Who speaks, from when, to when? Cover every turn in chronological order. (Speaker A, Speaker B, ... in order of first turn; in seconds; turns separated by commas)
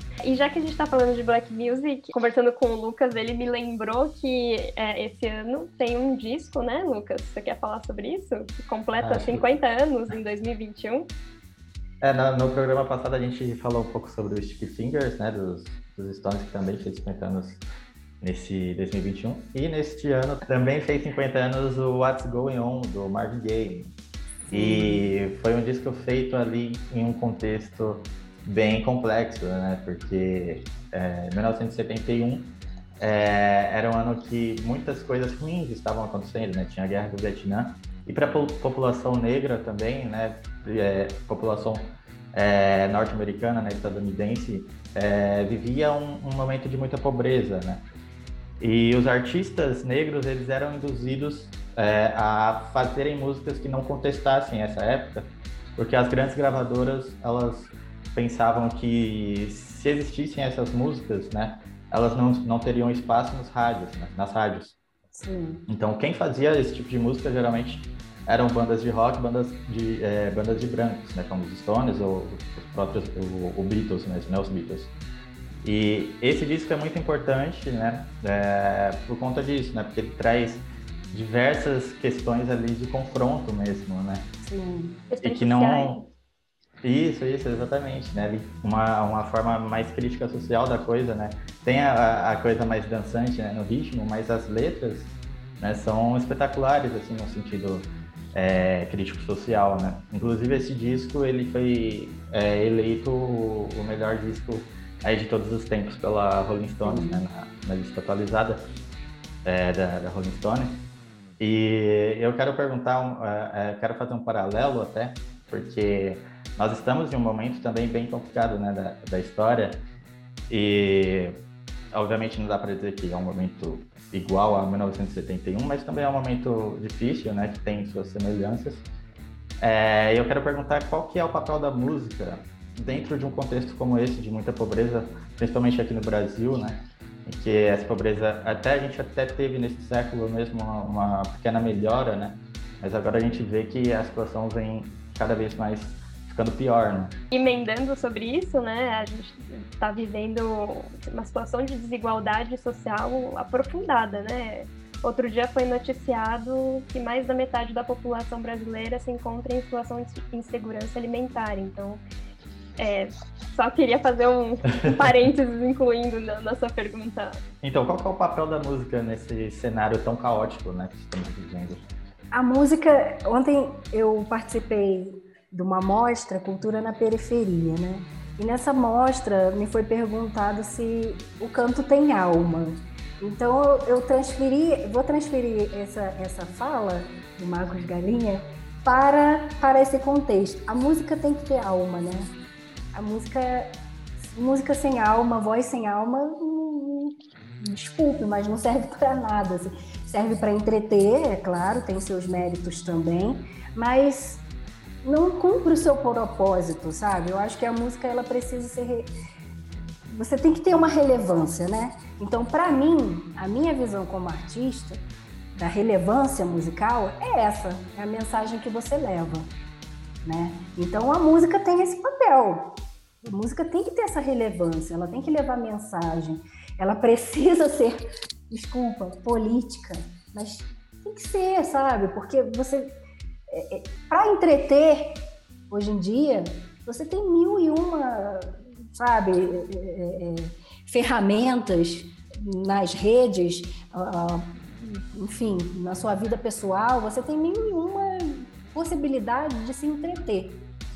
Speaker A: 0.2-11.1, Speaker B: 9.0-9.4, Speaker B: 12.0-17.6, Speaker B: 18.2-23.9, Speaker C: 24.5-25.1, Speaker B: 24.5-47.9, Speaker B: 48.6-64.8, Speaker C: 65.1-65.7, Speaker B: 65.7-74.9, Speaker B: 75.6-84.3, Speaker C: 84.4-85.0, Speaker A: 85.1-86.1, Speaker B: 85.2-86.0, Speaker B: 86.8-108.6, Speaker C: 106.8-107.2, Speaker B: 109.4-110.8, Speaker B: 111.4-119.8, Speaker B: 120.5-121.4, Speaker B: 121.9-128.8, Speaker B: 129.6-147.2, Speaker A: 147.3-162.0, Speaker A: 162.8-167.4, Speaker B: 167.6-171.8, Speaker C: 172.3-192.3, Speaker C: 192.9-204.4, Speaker C: 205.0-209.1, Speaker C: 210.1-215.0, Speaker C: 215.5-219.5, Speaker C: 220.2-232.9, Speaker C: 233.5-250.7